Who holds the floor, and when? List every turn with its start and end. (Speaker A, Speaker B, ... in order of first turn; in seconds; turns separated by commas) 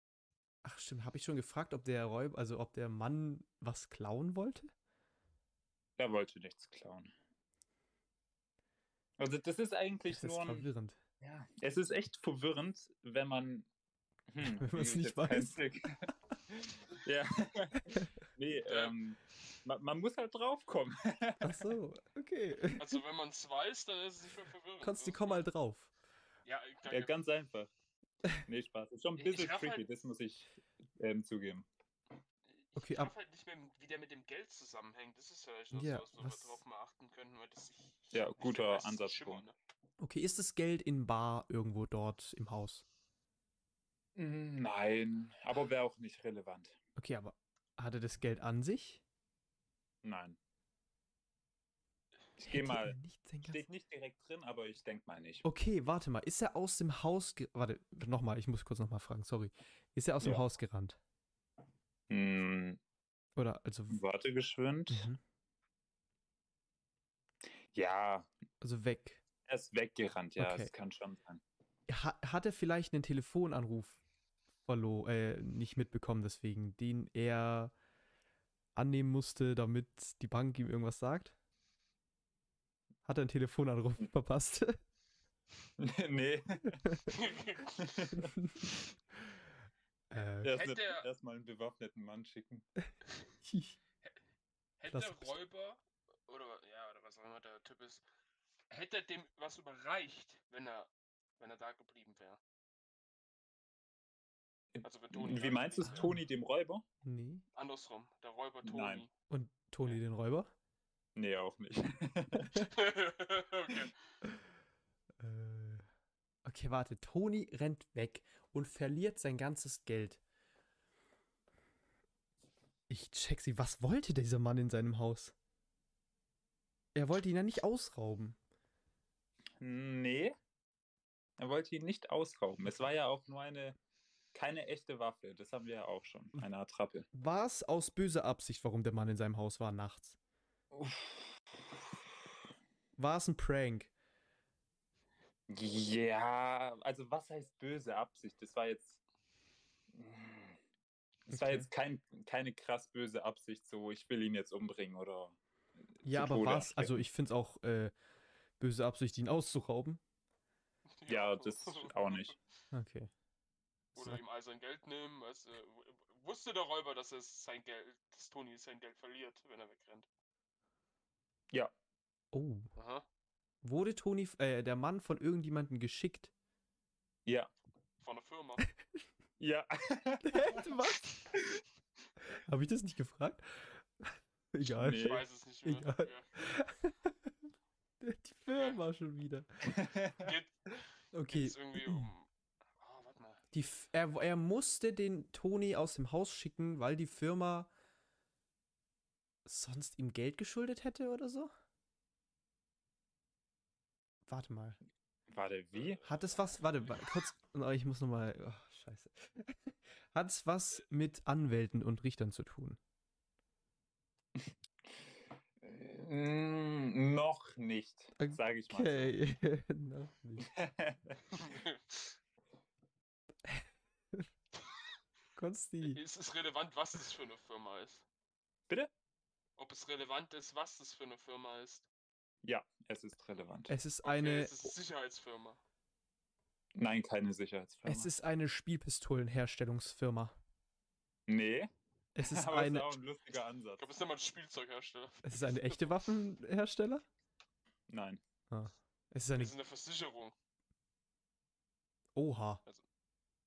Speaker A: 0.6-4.7, Speaker B: 6.0-7.1, Speaker B: 9.2-10.7, Speaker A: 10.1-11.0, Speaker B: 11.2-13.7, Speaker B: 14.3-15.9, Speaker A: 14.4-15.6, Speaker B: 17.0-21.7, Speaker C: 18.6-18.9, Speaker A: 21.4-23.0, Speaker C: 22.8-25.4, Speaker A: 24.8-25.9, Speaker C: 26.4-27.1, Speaker B: 26.9-27.7, Speaker B: 28.5-31.7, Speaker C: 29.2-29.9, Speaker C: 32.5-39.5, Speaker A: 32.8-33.1, Speaker A: 35.7-36.6, Speaker B: 38.1-39.4, Speaker A: 40.0-42.8, Speaker B: 44.1-46.8, Speaker A: 47.0-49.0, Speaker B: 50.0-50.4, Speaker B: 52.4-55.4, Speaker A: 52.5-53.6, Speaker A: 55.4-61.0, Speaker B: 62.1-62.8, Speaker A: 63.4-64.0, Speaker B: 63.9-65.1, Speaker A: 64.9-65.2, Speaker B: 67.7-68.3, Speaker A: 68.6-69.2, Speaker B: 69.5-71.4, Speaker A: 70.4-70.7, Speaker A: 71.9-74.0, Speaker A: 74.6-77.7, Speaker A: 78.7-81.3, Speaker A: 83.0-84.8, Speaker B: 85.8-86.8, Speaker A: 86.8-87.1, Speaker C: 87.1-88.0, Speaker B: 87.8-88.2, Speaker A: 88.2-88.7, Speaker A: 90.1-90.7, Speaker B: 90.4-92.6, Speaker C: 90.5-91.0, Speaker A: 93.4-93.8, Speaker C: 94.8-98.0, Speaker A: 94.9-95.4, Speaker C: 98.7-100.9, Speaker C: 101.4-102.4, Speaker B: 104.7-106.8, Speaker C: 104.8-106.1, Speaker A: 105.9-106.2, Speaker A: 107.0-107.4, Speaker C: 107.5-109.1, Speaker B: 108.6-109.0, Speaker A: 109.3-110.5, Speaker B: 111.2-112.6, Speaker C: 112.6-113.9, Speaker A: 115.2-115.8, Speaker A: 116.4-120.2, Speaker A: 122.9-125.3, Speaker A: 126.9-128.4, Speaker B: 129.6-130.3, Speaker B: 131.4-133.8, Speaker B: 134.3-137.1, Speaker A: 137.1-140.2, Speaker B: 140.7-141.9, Speaker A: 143.0-143.9, Speaker B: 145.5-149.0, Speaker B: 149.9-150.6, Speaker B: 151.3-155.4, Speaker A: 151.3-151.7, Speaker B: 155.9-157.0, Speaker A: 156.0-157.9, Speaker A: 158.6-160.0, Speaker C: 160.9-162.4, Speaker B: 161.1-162.3, Speaker A: 162.7-163.1, Speaker A: 163.9-164.2, Speaker C: 163.9-170.1, Speaker A: 172.3-172.7, Speaker C: 172.8-173.1, Speaker A: 173.6-176.3, Speaker C: 178.0-178.6, Speaker B: 179.4-180.6, Speaker A: 180.2-181.0, Speaker A: 182.4-187.3, Speaker B: 184.8-185.2, Speaker C: 184.9-186.3, Speaker A: 188.0-189.5, Speaker C: 188.6-188.8, Speaker B: 189.7-190.1, Speaker C: 190.2-193.4, Speaker A: 191.1-192.1, Speaker A: 193.5-197.7, Speaker A: 199.4-201.5, Speaker A: 204.3-204.8, Speaker B: 205.3-206.0, Speaker C: 205.8-206.5, Speaker A: 206.0-212.8, Speaker B: 215.6-219.2, Speaker A: 218.2-220.5, Speaker B: 220.4-221.2, Speaker C: 221.3-222.1, Speaker A: 223.5-224.2, Speaker A: 225.4-226.0, Speaker C: 225.8-228.0, Speaker C: 229.6-231.8, Speaker B: 232.4-233.7, Speaker A: 233.7-234.7, Speaker C: 234.0-235.6, Speaker B: 236.7-238.1, Speaker A: 237.8-240.3, Speaker B: 241.3-243.9, Speaker A: 242.2-243.0, Speaker C: 243.8-245.9, Speaker A: 245.2-247.0, Speaker B: 247.9-248.2, Speaker A: 248.5-249.5, Speaker C: 249.3-250.3, Speaker A: 252.2-252.6